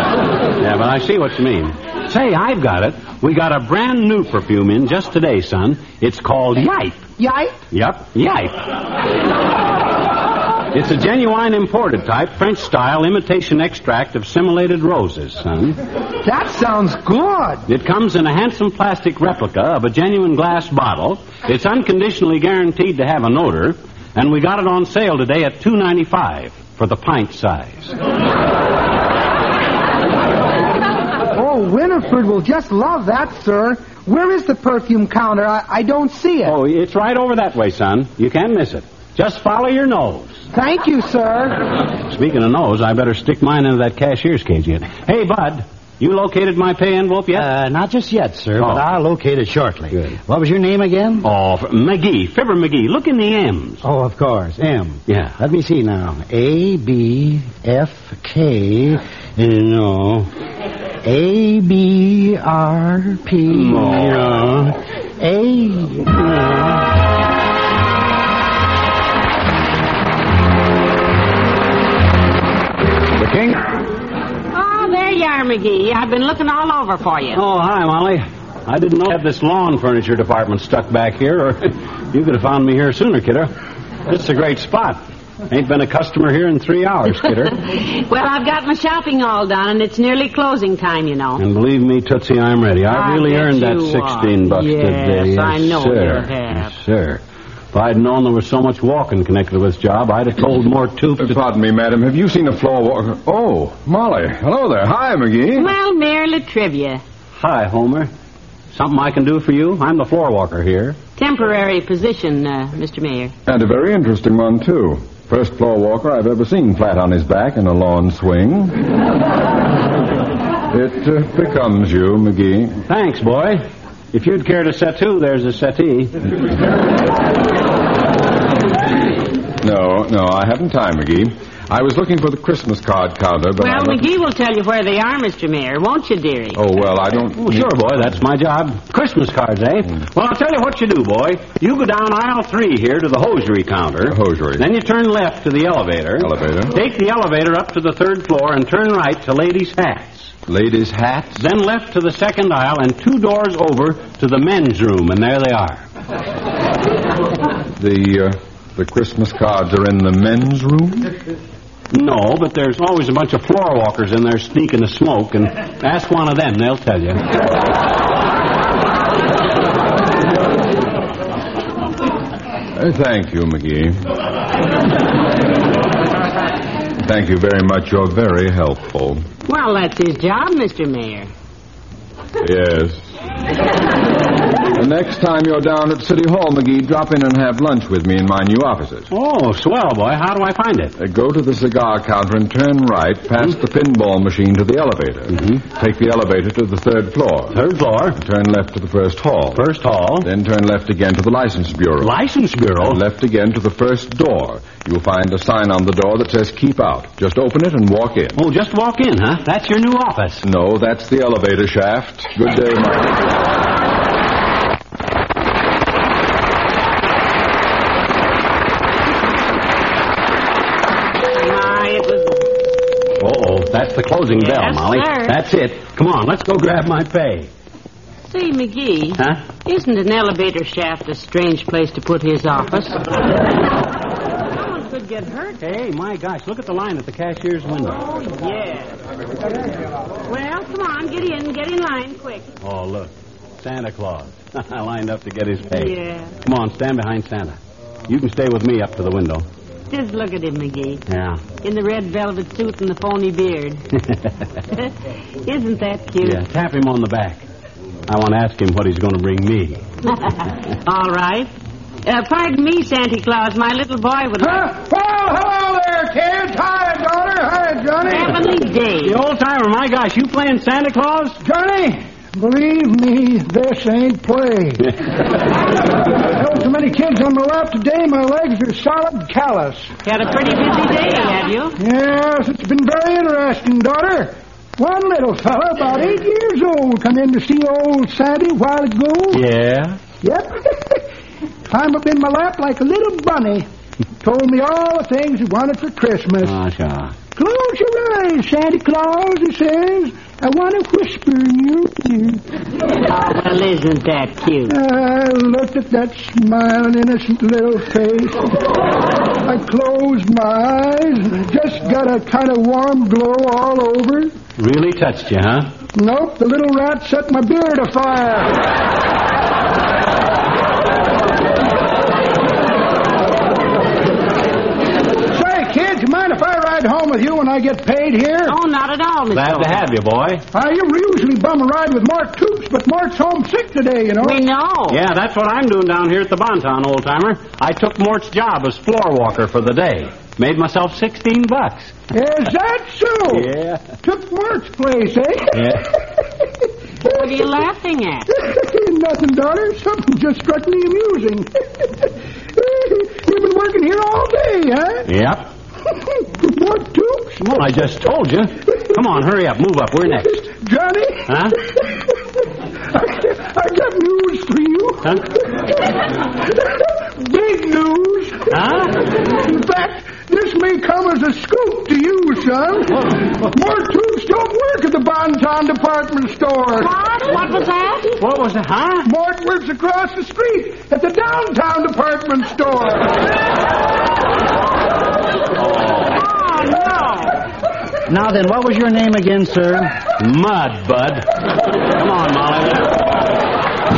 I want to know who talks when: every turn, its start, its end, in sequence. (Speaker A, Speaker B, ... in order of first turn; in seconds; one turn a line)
Speaker A: 0.6-7.0
Speaker B: 7.2-7.5
Speaker A: 7.7-8.7
Speaker A: 10.7-15.8
Speaker B: 16.2-17.6
Speaker A: 17.7-27.9
Speaker B: 31.3-36.5
Speaker A: 36.4-40.3
Speaker B: 40.5-41.6
Speaker A: 42.1-47.5
Speaker C: 47.3-51.2
Speaker A: 48.6-48.8
Speaker A: 51.2-53.8
Speaker C: 53.8-60.3
Speaker A: 55.1-55.4
Speaker C: 61.0-66.5
Speaker A: 63.5-64.6
Speaker D: 74.5-77.4
Speaker A: 77.3-83.5
Speaker A: 84.1-87.6
Speaker D: 87.6-91.4
Speaker A: 91.4-97.2
Speaker D: 92.9-96.7
Speaker A: 97.7-101.4
Speaker E: 101.2-105.7
Speaker D: 105.5-107.0
Speaker A: 107.3-108.1
Speaker A: 108.7-111.0
Speaker D: 111.2-113.3
Speaker E: 113.5-118.8
Speaker E: 120.7-122.8
Speaker A: 122.9-126.2
Speaker E: 129.6-134.1
Speaker D: 133.6-136.6
Speaker E: 136.5-137.7
Speaker A: 137.3-150.3
Speaker E: 144.1-144.7
Speaker E: 146.2-146.8
Speaker E: 150.5-151.4
Speaker A: 151.4-155.8
Speaker E: 157.8-161.1
Speaker A: 161.9-167.2
Speaker E: 172.7-174.0
Speaker E: 177.0-179.2
Speaker D: 179.4-181.3
Speaker E: 182.4-183.1
Speaker E: 184.7-189.1
Speaker A: 189.1-190.9
Speaker E: 191.0-197.6
Speaker A: 197.5-198.2
Speaker E: 198.1-199.7
Speaker A: 199.5-200.3
Speaker E: 200.2-202.1
Speaker A: 202.0-203.0
Speaker E: 202.8-208.4
Speaker A: 208.3-210.4
Speaker E: 210.4-213.2
Speaker D: 221.3-222.5
Speaker A: 223.2-227.5
Speaker D: 224.4-225.4
Speaker D: 228.2-233.0
Speaker D: 234.5-235.6
Speaker A: 235.6-238.0
Speaker D: 238.0-239.0
Speaker D: 240.3-242.5
Speaker A: 242.6-249.4
Speaker D: 245.7-246.3
Speaker D: 249.9-251.0
Speaker A: 251.1-251.4
Speaker D: 251.6-253.8
Speaker D: 254.7-256.4
Speaker A: 256.2-257.4
Speaker A: 258.1-259.8
Speaker D: 260.2-261.5
Speaker D: 262.0-264.7
Speaker F: 264.4-268.4
Speaker D: 268.1-269.2
Speaker A: 269.0-271.4
Speaker F: 271.4-274.9
Speaker F: 276.0-279.9
Speaker D: 280.0-281.8
Speaker F: 281.8-289.4
Speaker A: 289.3-290.0
Speaker F: 290.2-291.0
Speaker F: 291.7-293.6
Speaker F: 294.2-296.6
Speaker A: 296.4-297.2
Speaker F: 297.3-302.4
Speaker D: 303.0-304.7
Speaker F: 304.7-308.8
Speaker F: 309.4-314.3
Speaker A: 314.6-315.7
Speaker F: 315.9-318.7
Speaker F: 325.2-328.6
Speaker D: 328.5-329.8
Speaker A: 329.3-330.4
Speaker F: 330.5-334.4
Speaker D: 334.2-335.0
Speaker A: 334.9-342.0
Speaker F: 342.1-343.5
Speaker A: 343.3-343.9
Speaker F: 344.0-345.8
Speaker A: 345.5-345.9
Speaker D: 347.0-348.3
Speaker F: 348.3-355.1
Speaker A: 355.1-355.5
Speaker F: 355.9-357.4
Speaker A: 357.4-360.4
Speaker F: 360.0-362.1
Speaker A: 361.3-361.6
Speaker F: 362.9-376.9
Speaker A: 368.5-369.0
Speaker A: 372.9-373.5
Speaker D: 376.8-378.1
Speaker A: 378.2-379.1
Speaker F: 379.0-383.2
Speaker A: 385.5-386.2
Speaker D: 386.1-387.4
Speaker C: 388.1-390.0
Speaker A: 390.2-393.1